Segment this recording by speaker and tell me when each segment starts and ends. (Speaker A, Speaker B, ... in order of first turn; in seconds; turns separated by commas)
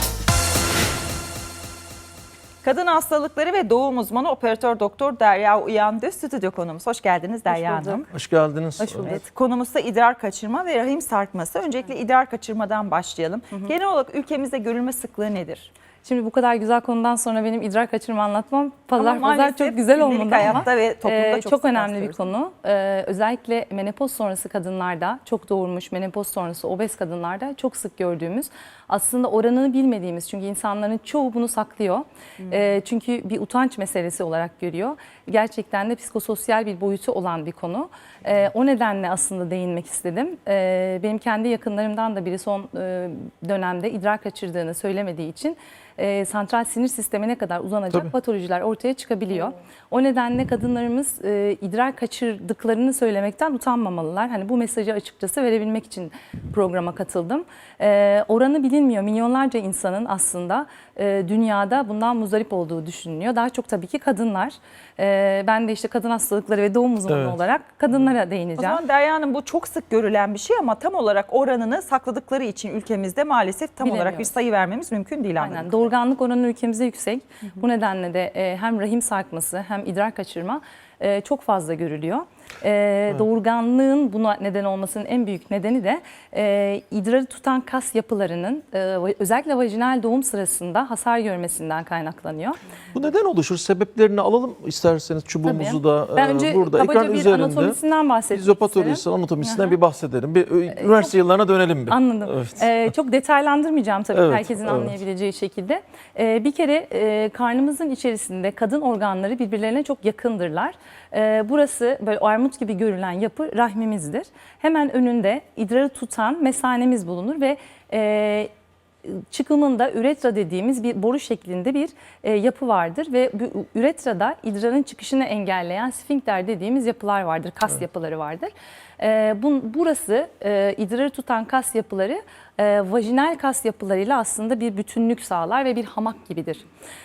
Speaker A: 2.6-8.1, Speaker B: 7.5-8.1, Speaker C: 8.2-9.1, Speaker B: 8.8-9.2, Speaker A: 9.0-15.7, Speaker B: 16.0-68.8, Speaker A: 19.0-22.2, Speaker A: 68.6-75.9, Speaker B: 73.8-74.3, Speaker B: 75.4-92.6, Speaker C: 92.9-97.8, Speaker B: 95.5-99.8, Speaker C: 98.4-102.4, Speaker B: 100.7-101.2, Speaker B: 101.9-118.5, Speaker B: 119.0-136.6